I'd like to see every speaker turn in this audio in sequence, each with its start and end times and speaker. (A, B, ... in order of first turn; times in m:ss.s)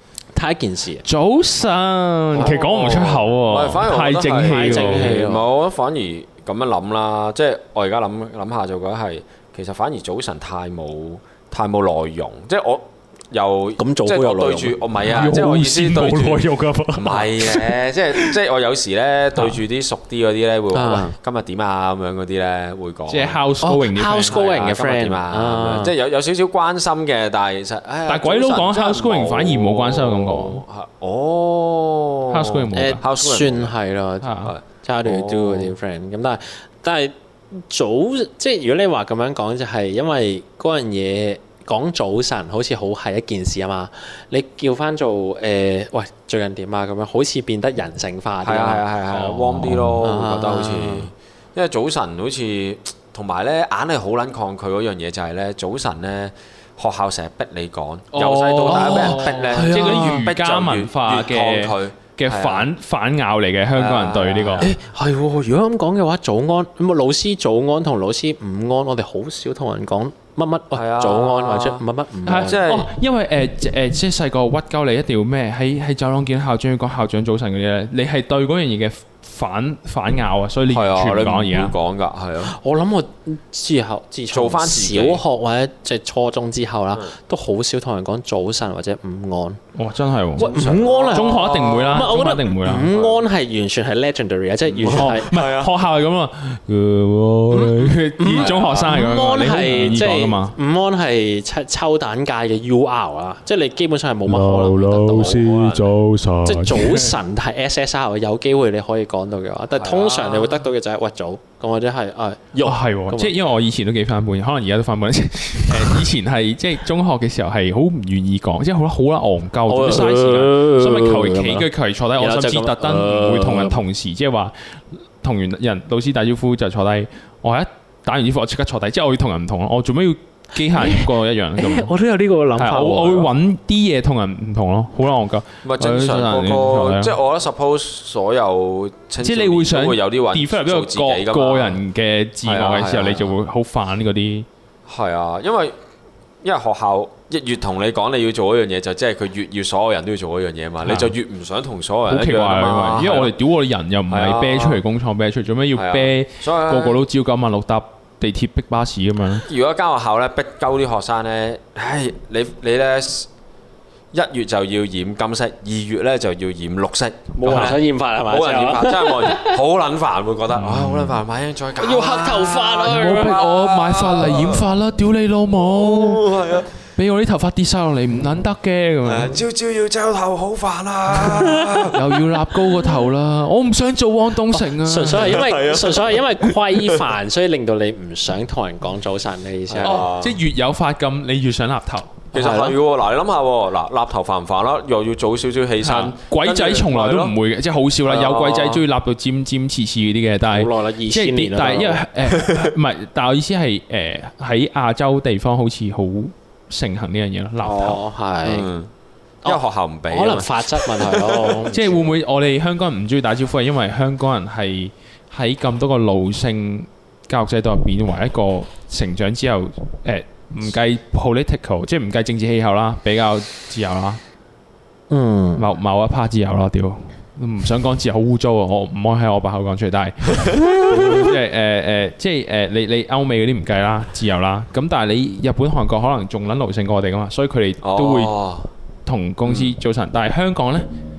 0:00.3-0:01.0 A
0:01.0-0:05.2 B
0:02.3-0:23.4 C
0:04.4-0:05.4 A
0:13.8-0:14.8 A
0:15.0-0:17.4 B
0:20.7-0:21.2 A
0:23.1-0:24.4 B
0:23.6-0:25.9 A
0:24.2-0:33.7 C
0:28.1-0:30.6 B
0:32.3-0:33.0 B
0:32.7-0:48.8 A
0:34.2-0:34.5 B
0:34.4-0:35.7 C
0:48.4-1:02.7 C
0:49.1-0:50.0 B
0:50.0-0:51.1 A
0:58.1-1:04.7 B
0:58.6-1:00.3 A
1:03.7-1:04.7 C
1:04.6-1:12.6 A
1:10.7-1:12.9 C
1:12.2-1:21.7 B
1:20.7-1:22.5 C
1:22.4-1:29.6 A
1:24.3-1:25.2 C
1:29.7-1:30.6 B
1:30.4-1:33.2 C
1:30.4-1:35.3 A
1:31.1-1:32.9 B
1:34.6-1:35.7 C
1:34.8-1:40.6 B
1:37.5-1:45.8 A
1:38.3-1:39.0 C
1:44.2-1:47.2 B
1:45.2-1:45.8 C
1:46.4-1:53.3 A
1:49.8-1:50.5 C
1:52.6-2:11.9 B
1:59.7-2:01.7 A
2:02.2-2:03.8 A
2:10.7-2:13.3 A
2:12.6-2:17.1 B
2:15.6-2:21.8 C
2:19.2-2:24.4 B
2:22.4-2:23.3 C
2:24.9-2:25.8 C
2:26.4-2:33.3 C
2:30.8-2:31.1 B
2:32.1-2:39.4 B
2:34.1-2:34.8 C
2:35.7-2:37.0 C
2:39.4-2:43.3 C
2:44.1-2:54.7 C
2:47.3-2:49.6 A
2:47.4-2:47.8 B
2:50.5-2:51.2 B
2:51.8-2:53.4 A
2:52.8-2:56.3 B
2:55.6-2:56.7 C
2:57.0-2:59.3 B
2:59.0-3:02.2 C
3:01.2-3:01.9 A
3:01.9-3:05.5 B
3:04.5-3:10.1 A
3:05.1-3:06.2 C
3:09.7-3:10.4 C
3:09.8-3:12.2 B
3:12.3-3:17.3 C
3:12.3-3:12.8 A
3:15.8-3:28.0 B
3:18.0-3:18.8 C
3:20.5-3:22.1 A
3:22.3-3:22.7 C
3:27.6-3:28.7 A
3:28.4-3:28.9 C
3:29.4-3:32.0 A
3:29.4-3:31.8 C
3:31.7-3:44.2 B
3:45.1-3:45.6 A
3:45.6-3:58.3 B
3:50.4-3:51.3 C
3:57.8-3:58.7 C
3:59.0-4:00.9 B
3:59.4-3:59.7 C